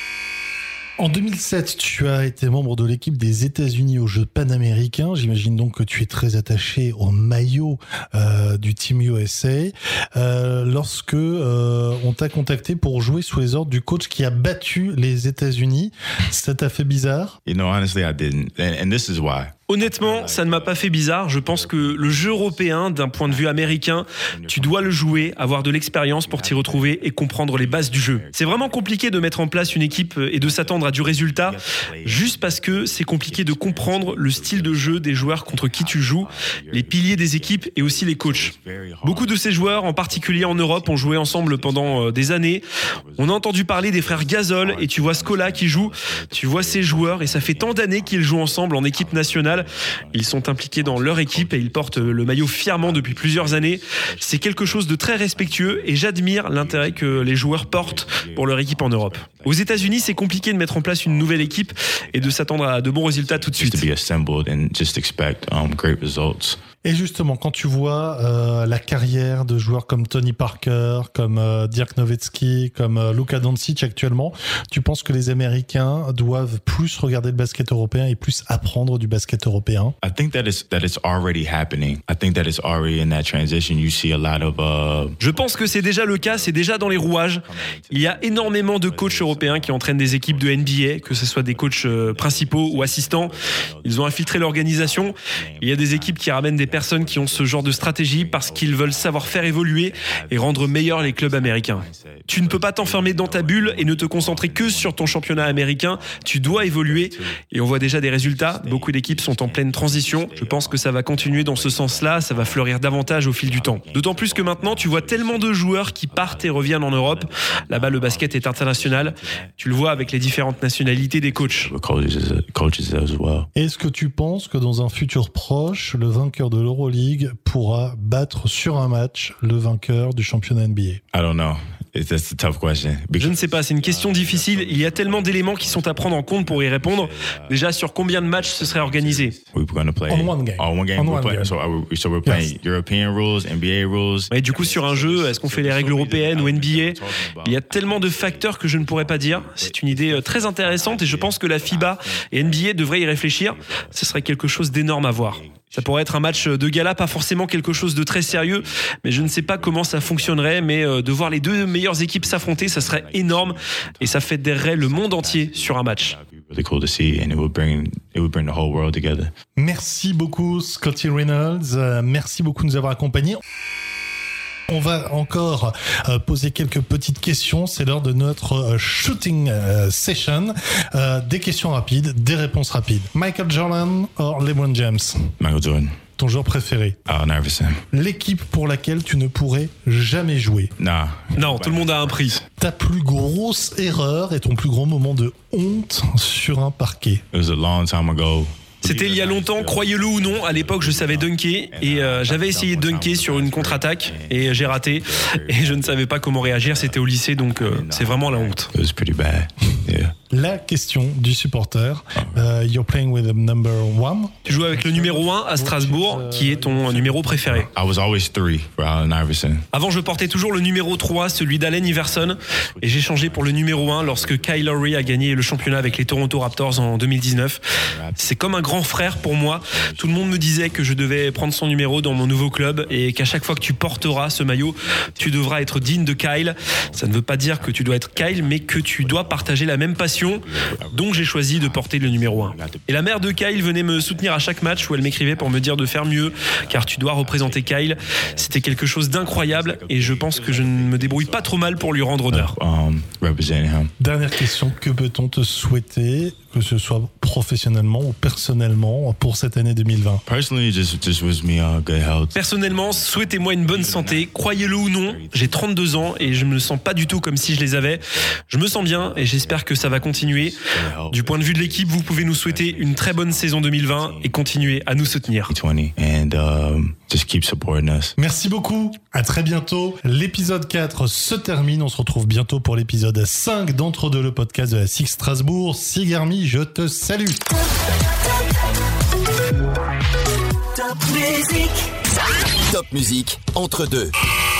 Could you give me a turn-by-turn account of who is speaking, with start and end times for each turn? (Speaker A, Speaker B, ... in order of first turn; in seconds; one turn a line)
Speaker A: 1.0-17.4
Speaker B: 17.4-28.8
Speaker C: 19.7-38.5
Speaker B: 29.5-66.6
Speaker C: 39.0-42.6
Speaker C: 43.2-63.9
Speaker A: 66.8-80.0
Speaker B: 80.0-123.5
Speaker C: 85.2-121.7
Speaker A: 123.5-131.0
Speaker B: 131.1-152.7
Speaker C: 133.2-139.3
Speaker A: 140.1-141.5
Speaker C: 144.3-166.2
Speaker B: 153.4-169.3
Speaker A: 169.6-173.4
Speaker A: 174.7-185.3
Speaker B: 185.4-186.0
Speaker A: 186.2-187.0
Speaker B: 187.1-187.8
Speaker A: 187.9-190.7
Speaker B: 190.8-192.4
Speaker C: 191.3-192.4
Speaker A: 192.6-197.2
Speaker B: 197.3-210.1
Speaker C: 198.8-208.7
Speaker A: 210.3-217.7
Speaker C: 214.4-217.7
Speaker B: 217.7-219.7
Speaker C: 219.7-227.6
Speaker B: 221.0-227.0
Speaker B: 227.7-253.9
Speaker C: 228.2-252.5
Speaker A: 254.0-260.2
Speaker B: 260.3-278.1
Speaker C: 262.4-275.5
Speaker A: 278.2-287.4
Speaker D: 287.5-288.9
Speaker D: 290.6-294.1